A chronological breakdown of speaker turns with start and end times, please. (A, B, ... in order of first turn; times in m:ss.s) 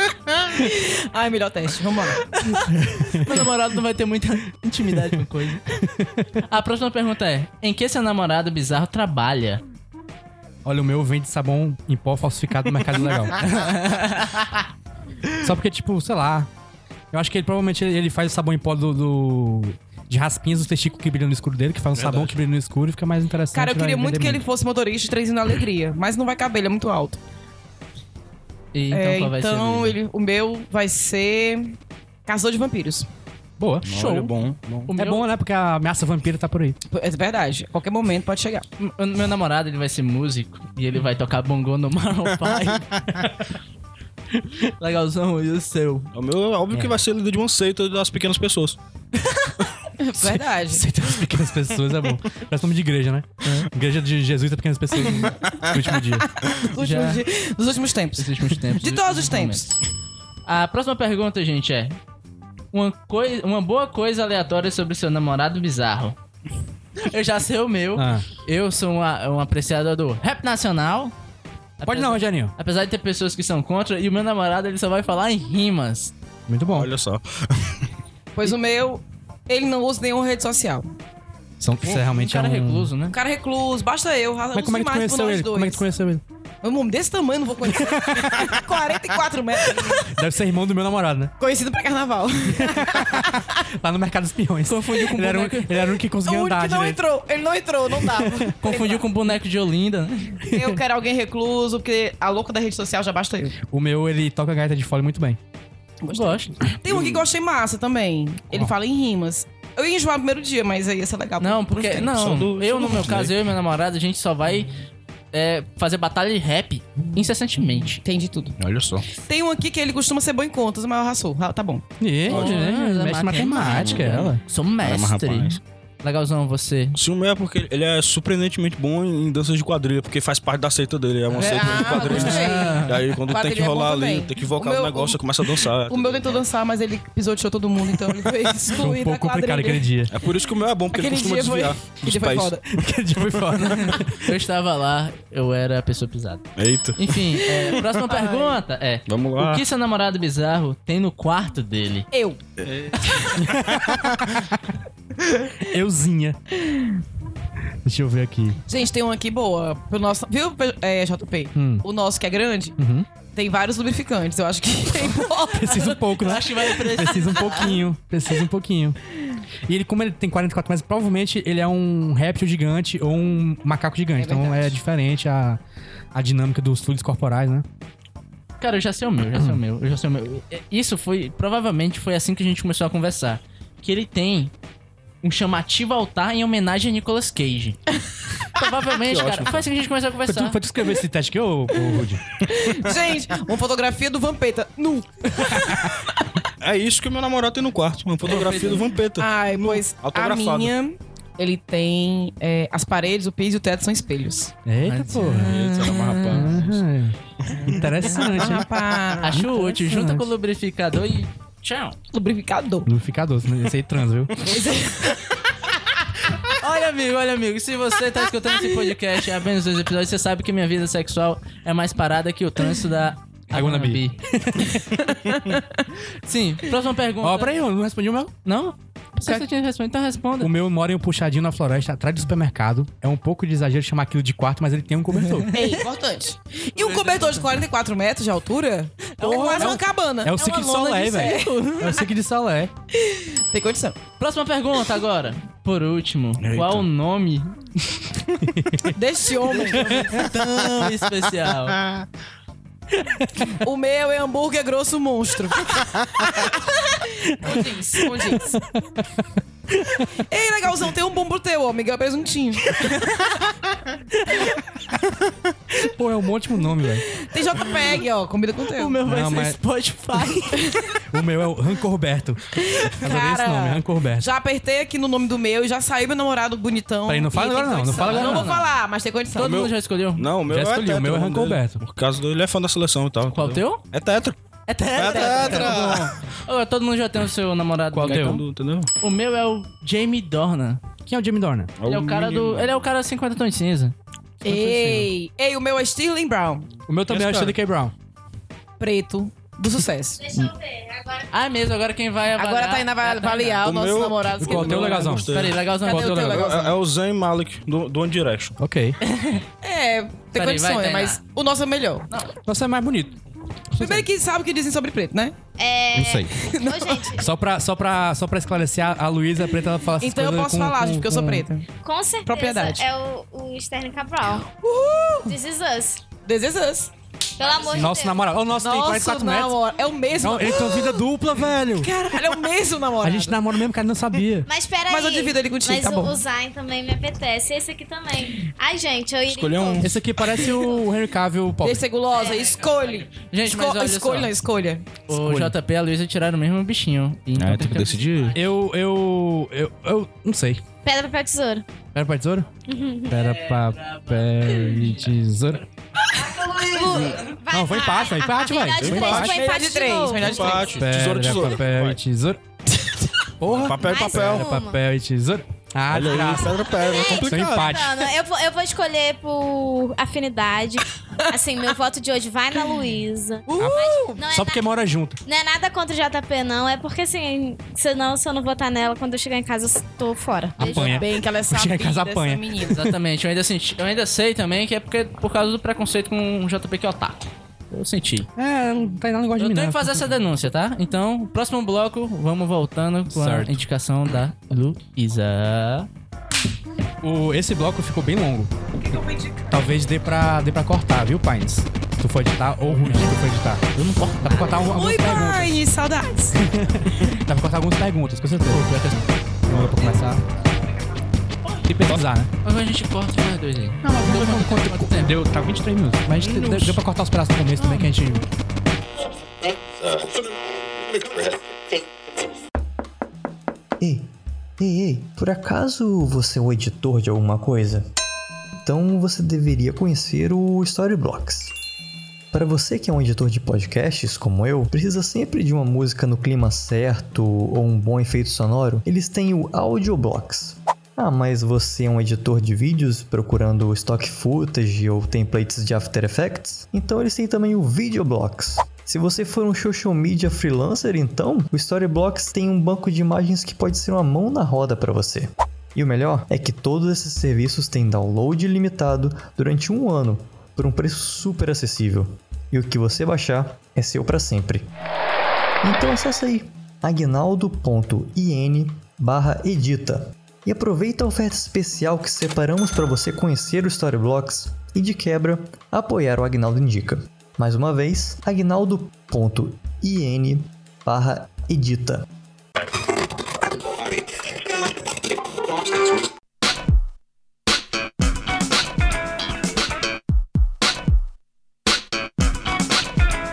0:00.3-0:02.3 A
0:02.3-0:05.8 B
0:02.7-0:03.5 C
0:04.9-0:05.2 C
0:05.8-0:06.3 C
0:06.5-0:09.6 B
0:10.6-0:13.4 C
0:13.4-0:14.6 B
0:15.4-0:16.5 C
0:17.1-0:24.4 C
0:22.0-0:22.4 D
0:23.5-0:27.2 A
0:28.7-0:30.0 B
0:28.9-0:33.1 A
0:33.6-0:34.3 C
0:33.8-0:34.9 D
0:34.9-0:35.3 B
0:34.9-0:36.8 C
0:36.9-0:38.6 A
0:38.8-0:42.9 B
0:44.8-0:46.1 B
0:46.1-0:48.8 D
0:50.0-0:50.9 A
0:50.2-0:56.3 C
0:56.2-0:59.8 A
0:56.8-0:57.2 B
0:58.2-0:59.7 B
1:00.5-1:02.0 B
1:02.7-1:06.2 B
1:07.0-1:11.1 B
1:08.0-1:08.3 C
1:11.8-1:16.1 B
1:11.8-1:12.5 C
1:16.5-1:16.9 C
1:16.7-1:17.9 D
1:18.4-1:20.9 A
1:21.6-1:22.9 C
1:21.8-1:23.2 B
1:23.1-1:25.8 A
1:24.5-1:26.2 C
1:26.6-1:30.1 A
1:27.6-1:28.6 C
1:30.0-1:31.3 C
1:31.4-1:33.6 A
1:32.5-1:37.0 C
1:34.7-1:35.7 B
1:36.2-1:39.1 A
1:38.0-1:38.5 C
1:38.6-1:40.4 B
1:40.5-1:40.8 C
1:40.5-1:43.6 A
1:43.7-1:45.4 C
1:46.0-1:52.3 A
1:46.1-1:46.5 B
1:46.9-1:47.2 D
1:51.4-1:54.7 B
1:52.1-1:53.4 D
1:55.3-1:58.0 B
1:58.0-1:58.6 A
1:58.6-1:59.1 D
1:59.2-2:01.8 A
2:02.0-2:04.4 C
2:02.3-2:07.0 B
2:02.3-2:02.6 D
2:03.7-2:05.6 D
2:07.0-2:16.4 D
2:11.4-2:19.9 A
2:11.9-2:13.0 B
2:18.7-2:20.1 C
2:20.1-2:22.6 D
2:20.9-2:22.6 A
2:22.7-2:24.3 C
2:23.6-2:32.1 B
2:26.6-2:27.3 D
2:27.5-2:28.6 A
2:29.1-2:29.6 D
2:32.1-2:32.4 A
2:32.6-2:33.0 D
2:33.0-2:33.4 A
2:33.5-2:34.5 C
2:35.6-2:36.4 C
2:36.6-2:37.0 A
2:37.8-2:38.6 C
2:38.7-2:42.8 A
2:41.6-2:41.8 C
2:42.8-2:43.1 C
2:43.3-2:46.0 A
2:45.4-2:49.0 C
2:46.2-2:47.8 B
2:49.7-2:55.6 C
2:54.2-2:54.8 A
2:56.1-2:57.6 C
2:58.6-3:04.5 B
3:05.2-3:07.8 B
3:08.5-3:10.6 B
3:09.0-3:09.7 D
3:10.3-3:12.2 C
3:12.4-3:15.9 A
3:16.6-3:20.7 D
3:18.2-3:18.9 B
3:19.2-3:24.5 A
3:24.7-3:25.5 C
3:24.8-3:26.6 B
3:25.4-3:26.8 D
3:26.3-3:28.7 C
3:28.1-3:29.4 A
3:29.2-3:32.0 B
3:29.3-3:30.3 C
3:32.1-3:32.9 A
3:32.9-3:34.4 C
3:34.4-3:35.5 A
3:36.5-3:44.2 B
3:43.5-3:45.0 C
3:45.3-3:45.6 A
3:46.2-3:47.6 B
3:47.2-3:48.3 C
3:48.4-3:50.5 B
3:50.4-3:55.5 C
3:55.2-3:55.8 B
3:55.5-4:02.0 A
3:56.8-3:57.6 B
3:59.2-3:59.8 B
3:59.2-4:02.7 C
4:00.4-4:02.0 B
4:02.9-4:04.0 A
4:04.2-4:08.0 B
4:06.4-4:06.9 D
4:08.4-4:09.0 C
4:08.9-4:10.2 A
4:09.5-4:11.8 B
4:09.7-4:10.2 C
4:12.9-4:13.5 C
4:13.6-4:18.6 A
4:17.4-4:19.0 C
4:19.7-4:20.1 C
4:20.2-4:23.5 A
4:25.7-4:27.1 C
4:27.1-4:29.0 A
4:28.7-4:30.6 B
4:29.0-4:29.6 C
4:30.5-4:31.0 A
4:31.1-4:34.3 C
4:32.6-4:39.6 A
4:37.1-4:38.5 C
4:38.0-4:38.7 B
4:39.4-4:40.3 B
4:39.4-4:44.4 D
4:40.5-4:41.8 C
4:43.3-4:43.8 B
4:44.7-4:48.4 B
4:44.9-4:46.1 D
4:45.1-4:45.7 A
4:47.9-4:48.4 C
4:48.1-4:48.9 D
4:49.0-4:50.8 B
4:51.1-4:51.7 C
4:51.8-4:52.7 D
4:51.8-4:54.0 B
4:54.4-4:55.1 C
4:54.4-4:56.7 A
4:56.9-4:57.9 C
4:57.1-4:57.6 D
4:58.8-5:00.2 A
5:00.2-5:01.3 E
5:01.3-5:03.9 B
5:02.4-5:06.8 A
5:03.6-5:08.6 D
5:04.4-5:05.3 C
5:04.7-5:06.3 B
5:05.9-5:06.4 C
5:08.6-5:09.0 C
5:09.0-5:09.4 B
5:09.6-5:12.1 A
5:10.3-5:11.2 B
5:12.5-5:13.2 C
5:13.7-5:14.1 C
5:13.8-5:15.4 A
5:15.6-5:17.3 E
5:15.9-5:16.3 C
5:16.4-5:17.1 A
5:17.1-5:21.5 C
5:20.0-5:21.7 A
5:21.8-5:24.5 E
5:22.2-5:22.9 A
5:24.5-5:25.3 A
5:25.2-5:26.0 E
5:26.2-5:26.9 A
5:27.4-5:28.2 E
5:27.7-5:29.6 C
5:28.6-5:31.1 A
5:30.2-5:31.9 C
5:31.8-5:33.5 A
5:33.0-5:34.5 C
5:34.4-5:40.7 E
5:34.9-5:36.2 A
5:39.3-5:39.9 D
5:39.8-5:41.8 C
5:41.6-5:44.9 A
5:42.1-5:42.5 E
5:43.2-5:44.3 B
5:45.1-5:48.4 B
5:45.1-5:45.6 C
5:47.4-5:48.4 D
5:48.3-5:50.6 C
5:50.8-5:51.6 E
5:51.9-5:52.5 C
5:52.7-5:53.3 E
5:53.0-5:55.6 C
5:53.2-5:55.2 B
5:56.7-6:00.6 E
5:56.8-5:57.2 D
5:57.5-5:59.4 C
5:58.8-5:59.4 D
5:58.9-6:00.8 A
6:00.2-6:02.0 D
6:00.4-6:00.8 B
6:00.8-6:02.4 C
6:02.8-6:03.1 A
6:03.4-6:08.0 C
6:03.4-6:04.5 D
6:03.8-6:04.8 E
6:05.9-6:07.9 D
6:06.8-6:14.6 E
6:13.5-6:14.2 A
6:13.6-6:15.2 C
6:15.2-6:21.0 E
6:20.6-6:22.9 C
6:20.6-6:22.8 A
6:22.7-6:28.3 B
6:28.4-6:30.2 C
6:29.4-6:35.9 B
6:33.1-6:33.6 C
6:37.0-6:38.5 C
6:38.8-6:39.6 A
6:39.5-6:43.6 C
6:42.8-6:43.1 B
6:43.7-6:44.7 B
6:44.2-6:45.6 C
6:44.6-6:46.5 A
6:46.4-6:48.8 C
6:48.5-6:49.1 B
6:49.5-6:50.2 C
6:51.6-6:52.3 C
6:52.4-6:55.2 B
6:53.8-6:58.3 C
6:57.6-6:57.9 B
7:03.8-7:07.9 F
7:08.6-7:11.5 F
7:12.3-7:44.7 F
7:45.6-8:02.1 F